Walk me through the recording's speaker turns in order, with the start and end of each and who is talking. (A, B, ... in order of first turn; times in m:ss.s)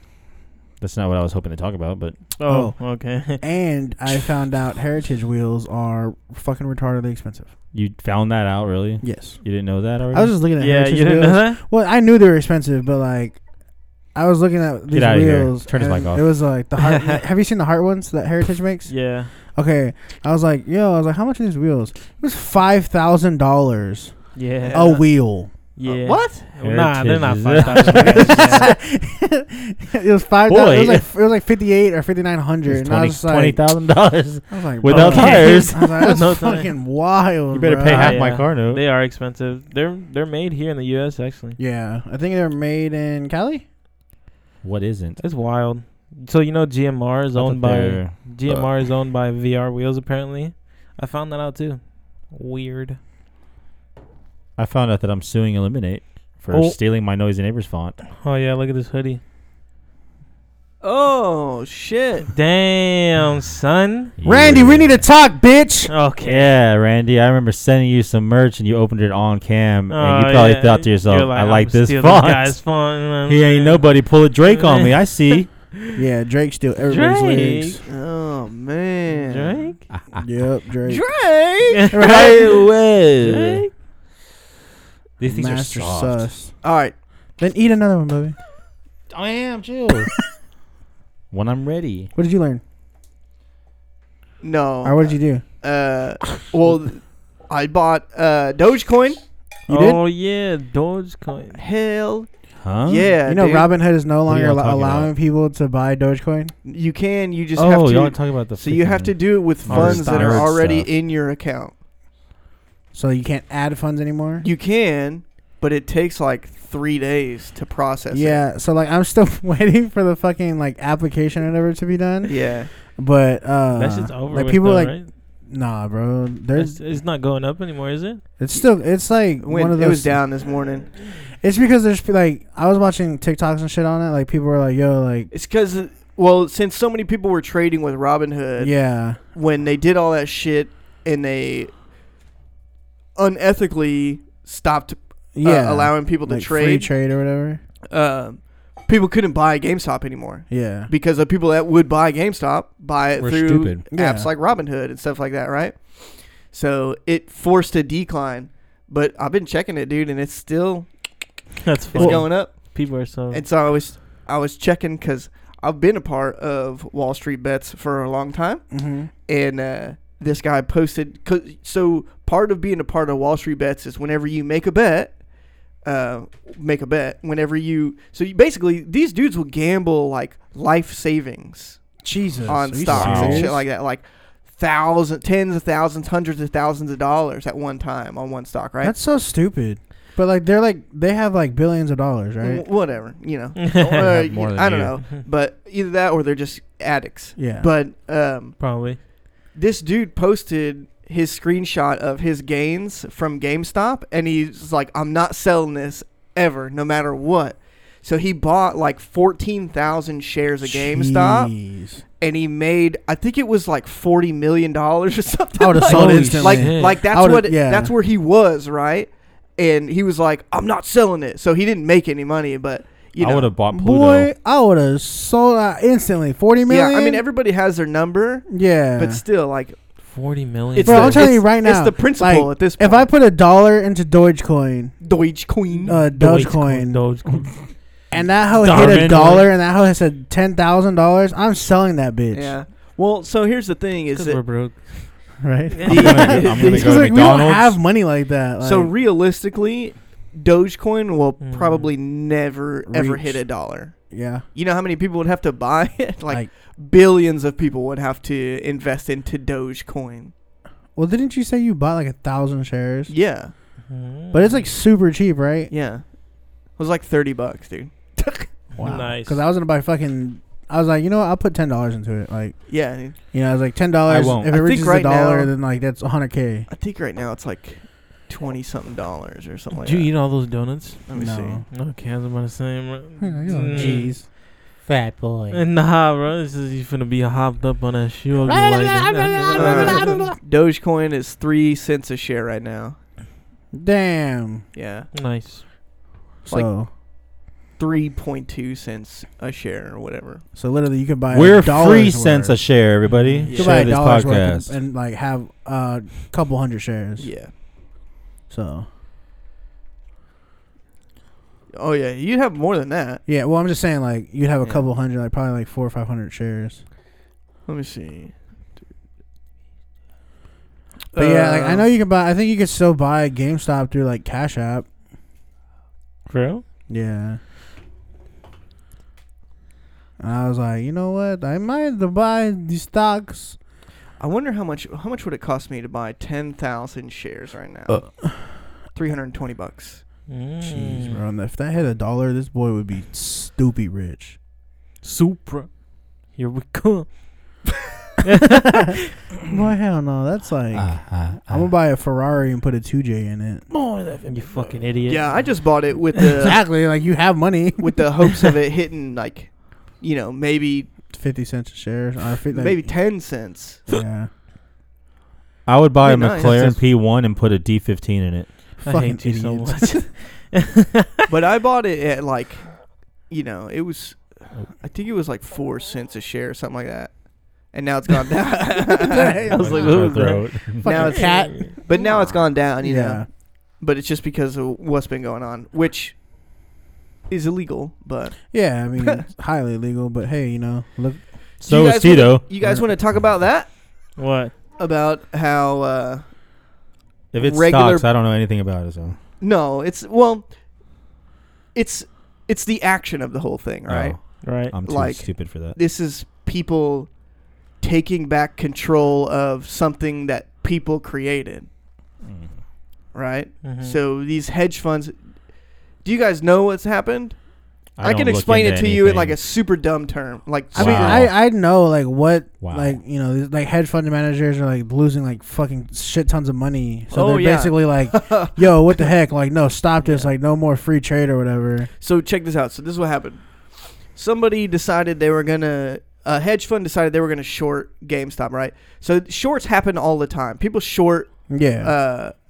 0:00.4-0:02.2 A
0:02.4-0:03.4 B
0:02.5-0:07.5 C
0:07.7-0:10.3 A
0:09.0-0:09.4 C
0:10.1-0:13.4 C
0:10.6-0:11.6 B
0:14.1-0:25.5 C
0:14.9-0:16.3 A
0:16.8-0:17.2 B
0:18.9-0:19.3 B
0:24.4-0:25.1 B
0:24.6-0:25.0 D
0:25.8-0:28.7 B
0:25.8-0:26.4 D
0:26.6-0:28.7 A
0:27.6-0:33.6 C
0:30.5-0:31.1 A
0:32.7-0:35.9 A
0:34.5-0:38.3 C
0:34.9-0:36.7 B
0:37.5-0:38.8 A
0:37.9-0:41.6 B
0:41.6-0:43.6 C
0:44.6-0:45.2 A
0:45.2-0:53.0 B
0:47.4-0:48.7 A
0:54.6-0:58.0 A
0:56.5-0:56.8 B
0:58.1-0:59.2 B
1:00.8-1:02.2 D
1:02.3-1:04.1 B
1:04.2-1:05.0 A
1:04.2-1:05.9 C
1:05.9-1:06.5 B
1:06.2-1:12.7 A
1:09.9-1:15.6 B
1:13.2-1:15.5 A
1:15.9-1:17.8 C
1:16.9-1:17.8 B
1:17.9-1:19.7 D
1:19.1-1:19.8 B
1:19.9-1:20.3 A
1:20.2-1:21.1 C
1:20.9-1:22.0 D
1:21.8-1:22.5 B
1:21.9-1:22.4 C
1:21.9-1:23.6 A
1:23.2-1:23.7 B
1:25.2-1:26.3 A
1:25.3-1:26.6 C
1:26.6-1:26.9 D
1:27.4-1:28.4 C
1:29.1-1:30.1 A
1:31.3-1:32.1 A
1:32.1-1:32.6 C
1:34.4-1:39.2 D
1:34.8-1:35.4 C
1:39.7-1:40.0 C
1:39.7-1:41.6 B
1:41.5-1:42.3 D
1:42.6-1:43.1 A
1:42.8-1:43.7 D
1:43.2-1:46.5 C
1:44.3-1:45.1 A
1:46.6-1:51.8 D
1:47.6-1:50.9 A
1:49.7-1:50.4 B
1:52.9-1:54.4 C
1:54.4-1:58.4 D
1:58.1-2:06.8 C
2:02.3-2:02.7 D
2:03.7-2:05.1 B
2:06.6-2:08.2 B
2:08.4-2:10.2 C
2:09.4-2:10.9 D
2:11.4-2:15.3 C
2:15.3-2:21.7 D
2:18.6-2:19.2 C
2:23.2-2:26.9 D
2:25.3-2:27.6 C
2:27.9-2:40.9 D
2:30.5-2:30.9 C
2:33.2-2:33.8 A
2:33.9-2:34.3 C
2:41.6-2:43.4 B
2:41.9-2:55.2 D
2:41.9-2:42.2 C
2:48.7-2:49.1 C
2:55.8-3:01.9 D
3:02.0-3:03.6 C
3:02.4-3:08.9 D
3:02.9-3:03.6 A
3:08.8-3:12.6 C
3:12.4-3:18.6 D
3:13.6-3:14.1 B
3:14.0-3:15.0 A
3:17.4-3:17.7 C
3:18.6-3:19.0 B
3:19.5-3:31.5 D
3:30.6-3:32.0 C
3:32.2-3:43.5 D
3:35.6-3:37.9 C
3:35.9-3:36.7 A
3:36.3-3:37.0 B
3:43.2-3:44.3 A
3:43.7-3:47.2 C
3:46.7-3:49.8 D
3:48.5-3:49.2 C
3:50.0-3:51.4 B
3:50.7-3:53.1 D
3:50.8-3:55.0 C
3:55.0-3:56.0 D
3:55.7-3:57.8 B
3:55.9-3:57.0 C
3:58.1-4:02.6 C
3:58.6-3:59.5 B
3:58.6-3:59.5 A
4:02.3-4:04.4 D
4:04.1-4:06.2 B
4:05.4-4:08.9 C
4:05.8-4:07.4 D
4:05.8-4:07.8 A
4:08.6-4:20.3 D
4:11.4-4:11.9 B
4:12.9-4:13.5 C
4:14.1-4:14.4 C
4:21.0-4:23.1 C
4:23.1-4:23.5 D
4:23.9-4:24.7 B
4:24.3-4:25.7 C
4:25.7-4:28.5 D
4:28.8-4:29.4 B
4:28.8-4:36.7 C
4:32.7-4:33.2 D
4:34.1-4:34.5 A
4:34.5-4:35.5 D
4:36.7-4:40.1 D
4:39.7-4:41.1 B
4:41.1-4:41.6 D
4:41.1-4:41.6 C
4:41.7-4:44.2 B
4:43.2-4:44.2 C
4:43.7-4:44.1 A
4:44.9-4:45.6 A
4:45.5-4:50.3 B
4:48.5-4:50.4 C
4:49.5-4:53.0 D
4:53.7-4:54.6 C
4:54.7-4:55.1 D
4:55.1-4:55.7 B
4:56.4-4:56.9 C
4:57.8-5:00.4 D
5:00.5-5:02.6 C
5:01.3-5:04.8 A
5:03.1-5:03.5 B
5:03.5-5:03.9 D
5:03.6-5:07.3 C
5:07.2-5:07.5 D
5:08.5-5:08.9 C
5:11.8-5:13.2 D
5:13.3-5:16.8 C
5:17.6-5:18.4 D
5:21.1-5:21.9 D
5:21.2-5:24.9 C
5:26.3-5:26.6 B
5:26.9-5:27.4 C
5:30.2-5:33.6 C
5:34.2-5:38.4 D
5:38.9-5:40.0 D
5:40.3-5:41.2 B
5:40.6-5:44.4 C
5:45.0-5:47.2 B
5:48.2-5:49.0 B
5:49.5-5:53.7 C
5:50.7-5:51.7 A
5:54.2-5:55.6 B
5:55.1-5:56.6 D
5:56.4-5:58.0 C
5:57.8-6:00.9 D
6:01.1-6:02.9 C
6:02.5-6:03.9 D
6:03.9-6:04.3 C
6:05.6-6:08.5 A
6:06.0-6:06.8 D
6:08.8-6:11.3 B
6:08.9-6:10.0 C
6:11.3-6:19.5 D
6:18.9-6:21.8 C
6:19.5-6:21.8 B
6:19.5-6:21.1 A
6:20.8-6:26.2 D
6:22.8-6:23.3 C
6:27.3-6:29.1 D
6:28.5-6:31.3 C
6:31.6-6:33.9 D
6:31.6-6:32.5 A
6:32.6-6:32.9 C
6:34.2-6:34.5 B
6:34.8-6:36.3 D
6:37.3-6:39.2 A
6:37.4-6:38.1 D
6:39.4-6:40.5 D
6:41.7-6:47.1 D
6:43.9-6:45.8 A
6:44.4-6:44.8 B
6:47.8-6:51.7 D
6:52.2-6:52.5 A
6:53.1-6:55.2 D
6:53.6-6:54.0 B
6:56.0-6:57.4 D
6:58.0-6:59.4 A
6:58.0-7:01.2 D
7:00.7-7:11.9 C
7:00.8-7:01.4 A
7:02.6-7:03.0 A
7:07.1-7:08.6 D
7:10.0-7:10.3 B
7:12.0-7:22.4 D
7:21.5-7:21.9 C